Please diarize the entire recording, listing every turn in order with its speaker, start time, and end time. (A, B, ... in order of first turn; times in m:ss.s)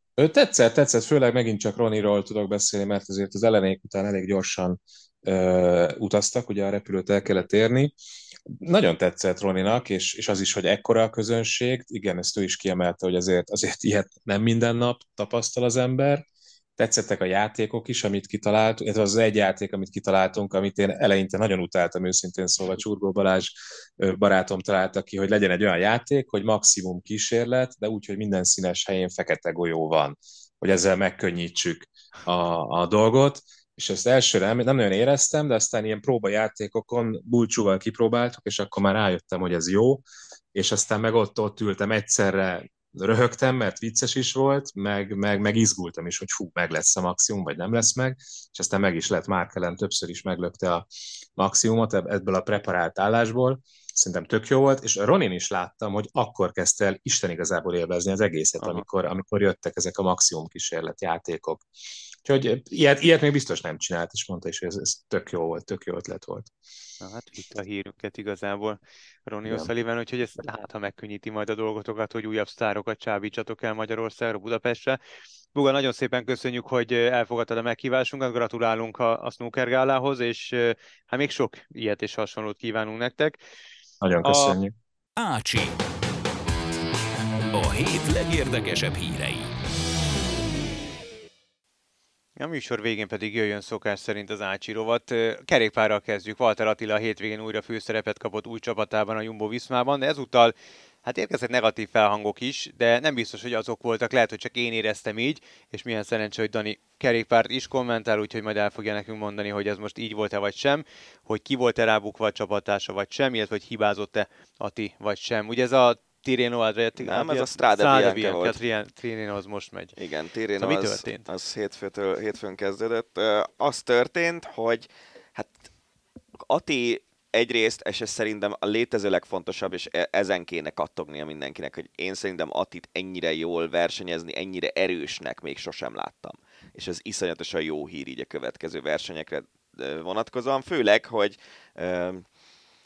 0:00.2-0:07.9 A
0:08.6-0:16.2 A
0:16.8-0:40.0 A
0:40.5-1:01.6 A
1:02.2-1:06.5 A
1:07.0-1:15.0 B
1:15.5-1:23.4 B
1:24.0-1:24.7 A
1:24.2-1:24.6 B
1:25.2-1:25.7 C
1:27.5-1:29.5 C
1:32.4-1:59.9 B
1:57.0-1:58.6 D
2:00.0-2:05.7 D
2:00.6-2:01.3 B
2:06.4-2:22.2 D